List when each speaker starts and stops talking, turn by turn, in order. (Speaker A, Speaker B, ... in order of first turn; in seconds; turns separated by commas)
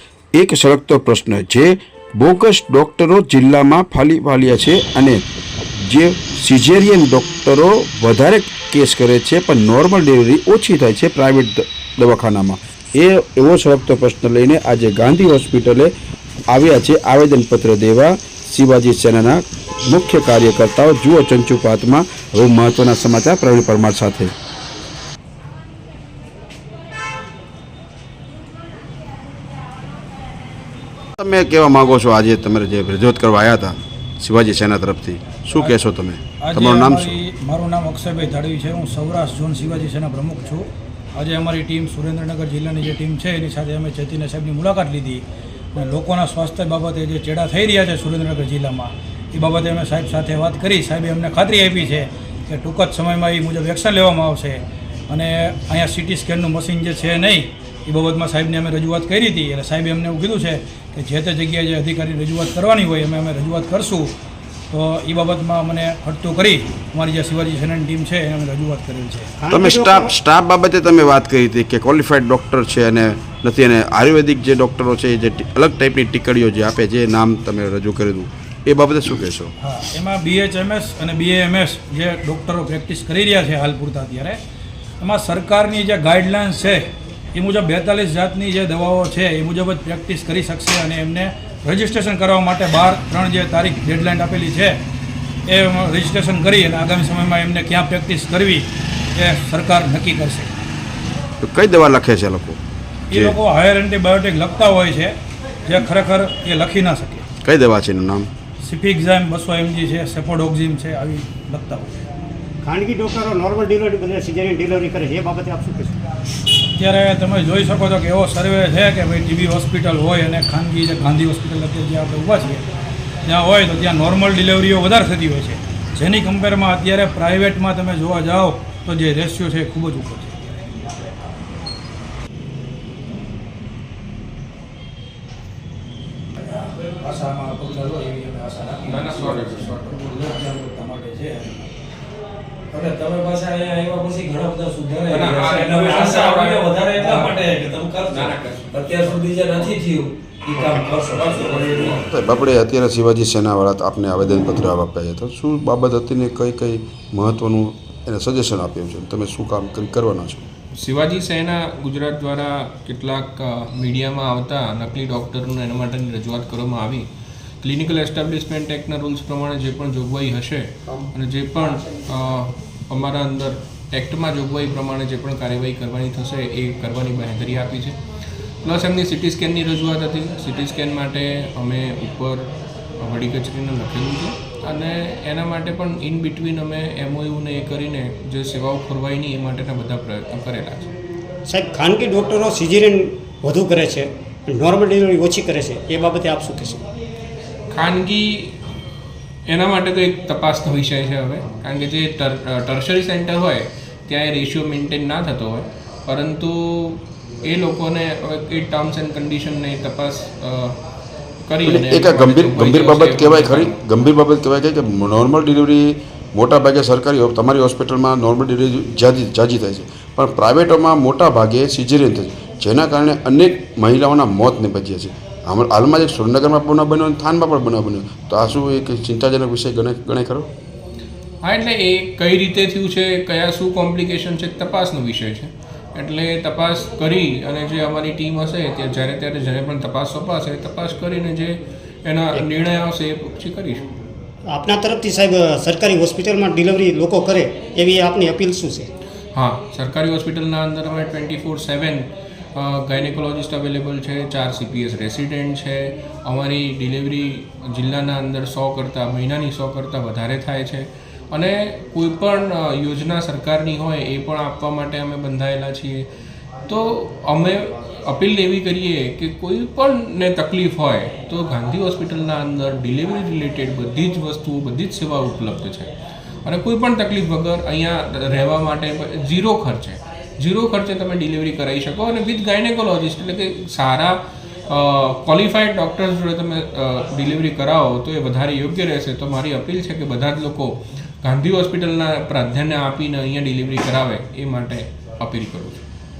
Speaker A: 0.3-5.2, Speaker A: 5.8-15.9, Speaker A: 16.5-24.3, Speaker A: 31.2-37.2, Speaker B: 36.4-64.1, Speaker B: 64.7-69.3, Speaker C: 69.4-70.1, Speaker A: 69.5-79.5, Speaker B: 79.6-84.4, Speaker B: 85.0-94.8, Speaker B: 95.5-100.5, Speaker A: 101.4-102.6, Speaker B: 103.1-105.1, Speaker B: 105.7-107.2, Speaker A: 107.4-108.3, Speaker B: 108.6-111.9, Speaker C: 112.6-116.0, Speaker B: 116.7-122.6, Speaker B: 123.2-130.9, Speaker B: 136.3-141.7, Speaker D: 138.8-140.0, Speaker E: 142.7-152.1, Speaker D: 145.1-147.0, Speaker B: 147.0-147.4, Speaker D: 148.1-148.9, Speaker D: 151.3-151.9, Speaker A: 152.0-160.4, Speaker D: 160.8-167.1, Speaker D: 167.6-178.0, Speaker D: 178.6-190.9, Speaker C: 191.5-196.8, Speaker D: 197.7-198.6, Speaker D: 199.5-210.8, Speaker D: 211.4-213.8, Speaker A: 211.6-230.5, Speaker D: 231.4-243.8, Speaker C: 244.4-248.9, Speaker D: 249.3-266.1, Speaker D: 266.7-275.9, Speaker D: 276.4-295.8